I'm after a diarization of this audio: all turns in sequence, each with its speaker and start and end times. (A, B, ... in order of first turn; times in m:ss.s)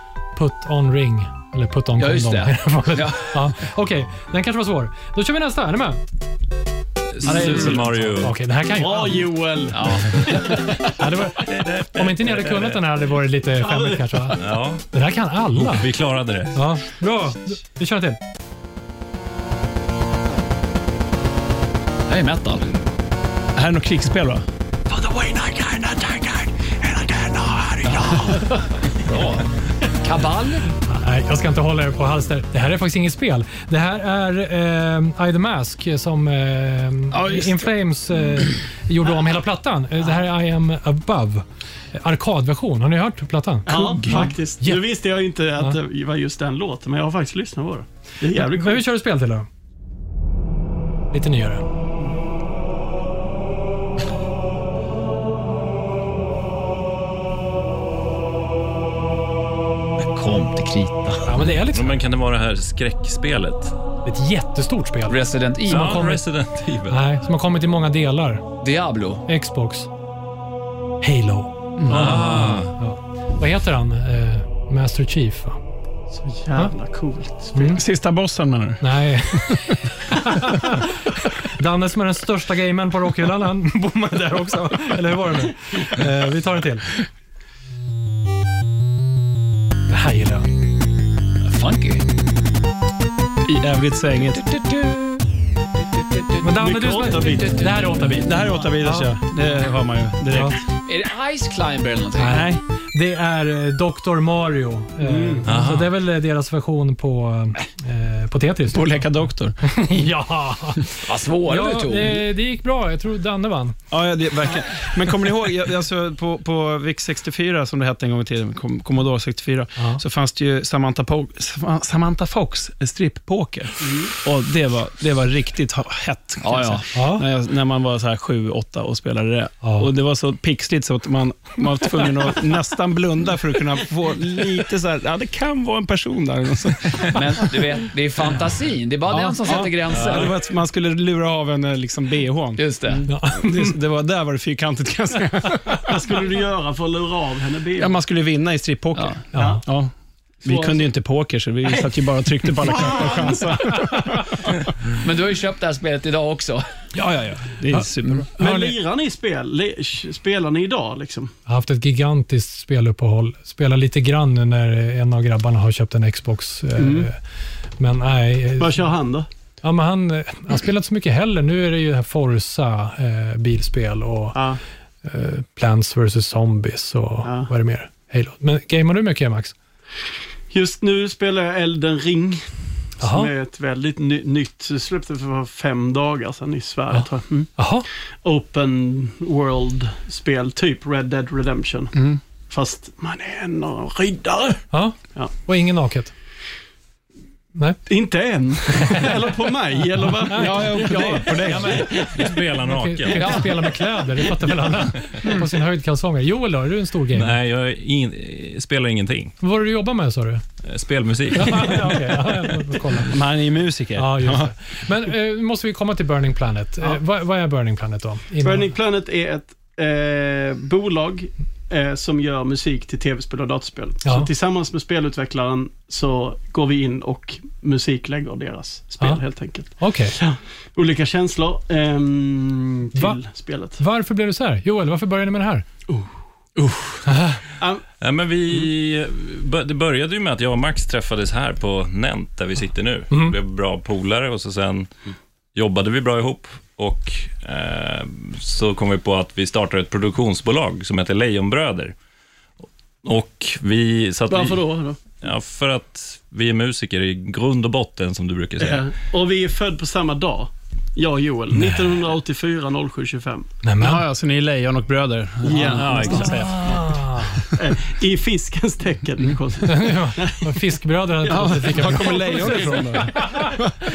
0:00.3-0:06.0 A
0:02.0-0:03.5 B
0:07.1-0:08.3 C
0:07.2-0:09.2 A
0:07.2-0:07.9 D
0:08.8-0:10.9 D
0:09.7-0:10.7 B
0:10.9-0:15.9 A
0:11.4-0:12.8 C
0:13.6-0:14.4 D
0:14.4-0:14.8 C
0:15.5-0:16.6 C
0:16.5-0:18.2 A
0:22.1-0:22.8 B
0:23.5-0:24.4 E
0:25.0-0:26.0 B
0:27.1-0:27.8 E
0:27.8-0:29.4 B
0:29.1-0:29.4 C
0:29.9-0:30.7 B
0:30.8-0:44.8 A
0:37.1-0:37.7 E
0:43.7-0:48.8 D
0:44.0-0:44.3 B
0:48.3-0:49.5 A
0:51.1-0:51.6 A
1:00.0-1:01.5 B
1:01.2-1:02.0 A
1:01.7-1:03.8 C
1:04.0-1:06.2 A
1:05.1-1:06.0 B
1:05.7-1:07.0 C
1:06.9-1:08.4 A
1:08.6-1:09.2 B
1:09.3-1:09.9 A
1:11.0-1:15.6 A
1:11.8-1:12.2 E
1:11.9-1:12.7 C
1:16.1-1:17.8 D
1:17.5-1:17.8 A
1:17.8-1:18.8 E
1:18.8-1:26.9 A
1:29.9-1:30.5 A
1:31.4-1:32.0 B
1:33.4-1:34.4 E
1:34.3-1:35.3 B
1:35.8-1:36.5 B
1:36.4-1:39.1 A
1:36.6-1:37.7 D
1:37.0-1:37.5 E
1:37.1-1:38.1 B
1:38.1-1:40.6 E
1:40.3-1:40.6 A
1:40.8-1:42.4 B
1:42.2-1:49.0 A
1:42.2-1:42.6 E
1:45.0-1:45.5 D
1:45.4-1:45.9 C
1:48.7-1:49.6 E
1:49.6-1:53.8 A
1:51.0-1:52.2 B
1:53.9-2:17.6 E
1:59.8-2:00.0 A
2:03.8-2:04.2 D
2:06.4-2:06.9 B
2:06.9-2:07.2 A
2:09.6-2:09.9 A
2:17.1-2:20.3 B
2:19.1-2:26.0 E
2:19.9-2:20.3 C
2:22.6-2:23.1 B
2:23.1-2:23.7 A
2:25.9-2:28.0 D
2:27.8-2:29.9 E
2:29.3-2:29.6 A
2:29.3-2:29.6 D
2:30.4-2:34.5 E
2:30.4-2:30.9 D
2:31.7-2:34.2 D
2:33.9-2:34.2 A
2:35.0-2:36.6 B
2:37.0-2:38.3 E
2:37.5-2:38.8 A
2:38.4-2:41.3 D
2:41.4-2:47.2 A
2:46.8-2:47.1 D
2:47.8-2:48.8 A
2:48.6-2:49.3 D
2:49.6-2:54.4 A
2:54.3-2:54.6 D
2:55.0-2:59.5 A
2:57.2-2:57.5 D
3:00.5-3:07.5 D
3:03.0-3:03.3 A
3:06.9-3:07.8 A
3:08.2-3:15.3 D
3:11.9-3:12.2 E
3:14.7-3:16.1 A
3:17.5-3:17.8 A
3:17.9-3:22.3 D
3:20.0-3:27.3 A
3:20.3-3:21.8 E
3:21.5-3:23.5 C
3:23.1-3:23.5 B
3:27.1-3:29.4 C
3:29.4-3:30.4 A
3:30.6-3:31.9 C
3:31.4-3:33.2 A
3:33.0-3:34.5 E
3:34.0-3:38.7 A
3:38.4-3:53.8 D
3:44.0-3:44.3 A
3:49.0-3:50.2 A
3:52.9-3:53.2 A
3:53.8-3:55.6 A
3:55.9-3:57.0 D
3:57.0-3:57.4 A
3:57.6-3:57.8 D
3:58.0-4:04.9 C
4:03.1-4:03.4 A
4:05.5-4:11.9 C
4:13.0-4:18.9 C
4:14.3-4:15.0 D
4:18.6-4:23.5 D
4:23.6-4:24.0 A
4:23.8-4:26.9 E
4:25.4-4:26.3 D
4:25.6-4:26.6 C
4:26.1-4:27.4 A
4:27.6-4:30.6 D
4:29.6-4:33.6 A
4:31.3-4:33.7 E
4:31.3-4:33.2 D